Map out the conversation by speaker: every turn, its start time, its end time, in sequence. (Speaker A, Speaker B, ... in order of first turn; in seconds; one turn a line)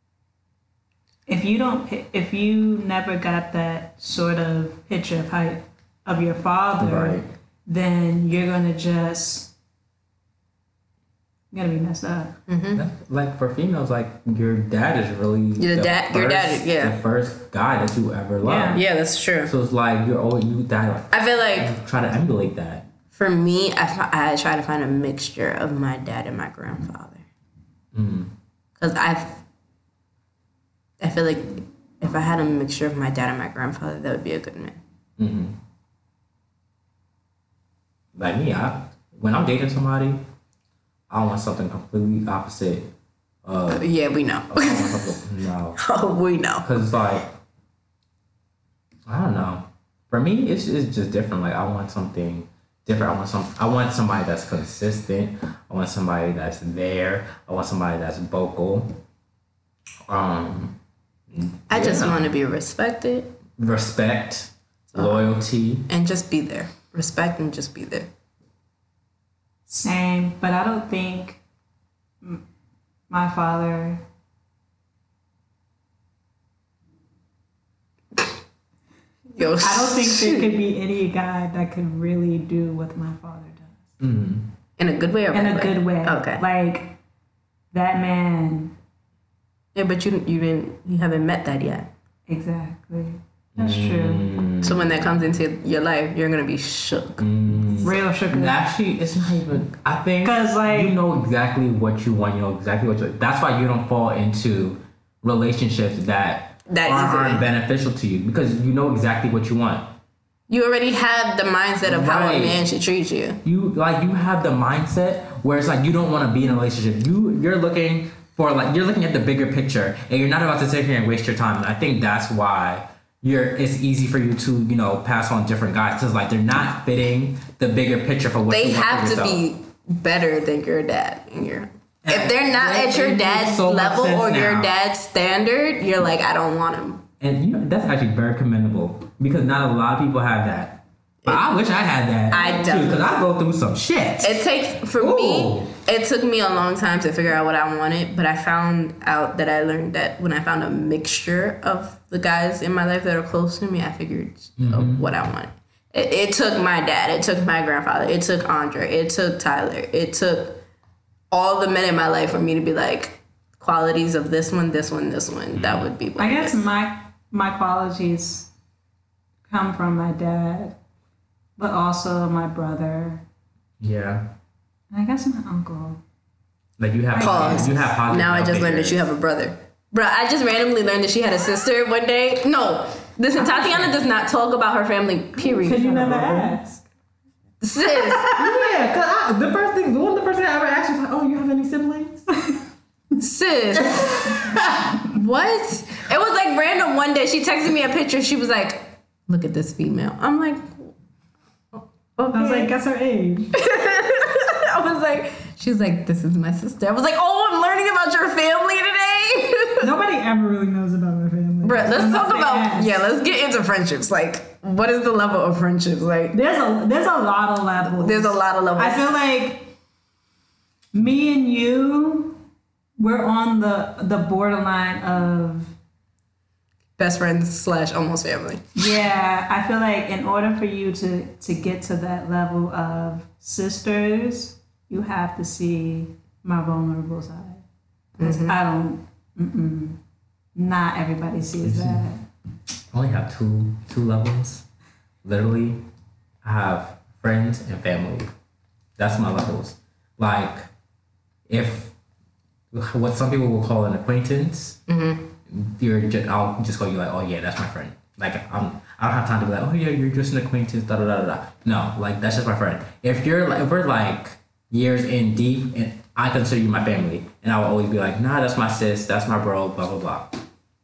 Speaker A: 1.3-9.5
Speaker B: 6.8-7.3
Speaker A: 11.5-12.3
Speaker C: 12.5-12.8
Speaker B: 12.8-18.8
Speaker C: 15.6-17.0
Speaker A: 18.4-18.8
Speaker C: 18.7-19.5
Speaker B: 19.5-22.9
Speaker C: 21.1-21.7
Speaker C: 23.1-27.3
Speaker B: 27.9-28.3
Speaker C: 28.8-29.4
Speaker C: 31.0-34.8
Speaker B: 35.2-35.6
Speaker B: 38.1-40.2
Speaker B: 41.1-42.9
Speaker B: 43.5-43.9
Speaker C: 43.7-45.1
Speaker B: 44.5-45.8
Speaker C: 45.8-46.7
Speaker B: 46.6-47.3
Speaker B: 49.1-59.0
Speaker B: 60.1-60.8
Speaker B: 61.3-62.3
Speaker C: 61.7-63.3
Speaker B: 63.6-65.9
Speaker C: 64.9-65.3
Speaker C: 65.9-68.1
Speaker A: 69.7-71.4
Speaker A: 73.1-74.0
Speaker C: 79.3-80.5
Speaker A: 79.4-83.8
Speaker B: 84.0-84.5
Speaker C: 84.8-86.4
Speaker A: 85.3-87.0
Speaker A: 87.7-88.7
Speaker C: 89.8-91.9
Speaker A: 92.3-94.3
Speaker B: 93.6-95.4
Speaker C: 94.6-97.2
Speaker B: 97.2-109.9
Speaker A: 97.8-98.6
Speaker A: 100.2-101.0
Speaker C: 106.7-107.5
Speaker C: 110.5-113.4
Speaker B: 111.8-112.6
Speaker B: 113.4-129.4
Speaker C: 128.5-137.0
Speaker B: 132.0-134.7
Speaker B: 137.2-144.4
Speaker C: 142.3-143.2
Speaker C: 144.2-160.6
Speaker B: 144.9-145.7
Speaker B: 154.6-155.1
Speaker C: 161.3-166.6
Speaker B: 165.5-165.9
Speaker A: 166.2-168.5
Speaker A: 169.5-170.8
Speaker A: 171.6-173.2
Speaker B: 173.8-174.3
Speaker A: 174.9-176.0
Speaker B: 176.8-179.1
Speaker A: 177.1-177.7
Speaker C: 177.2-186.5
Speaker A: 183.4-183.9
Speaker A: 185.4-186.8
Speaker C: 187.6-188.3
Speaker A: 187.8-188.5
Speaker B: 188.3-192.3
Speaker C: 193.2-194.4
Speaker B: 194.2-194.9
Speaker C: 195.0-200.9
Speaker C: 201.7-202.7
Speaker A: 202.3-203.5
Speaker C: 203.5-209.9
Speaker A: 209.8-213.0
Speaker C: 211.6-216.4
Speaker A: 216.3-219.7
Speaker C: 217.8-219.1
Speaker A: 220.9-222.4
Speaker A: 223.0-225.7
Speaker C: 227.0-228.6
Speaker A: 228.8-237.6
Speaker C: 238.2-238.6
Speaker A: 238.2-240.0
Speaker A: 240.6-242.2
Speaker B: 241.6-242.1
Speaker B: 242.9-244.6
Speaker B: 245.2-245.8
Speaker B: 246.4-248.3
Speaker B: 249.0-250.7
Speaker B: 251.5-251.9
Speaker B: 252.7-254.8
Speaker C: 254.9-255.3
Speaker B: 255.5-270.4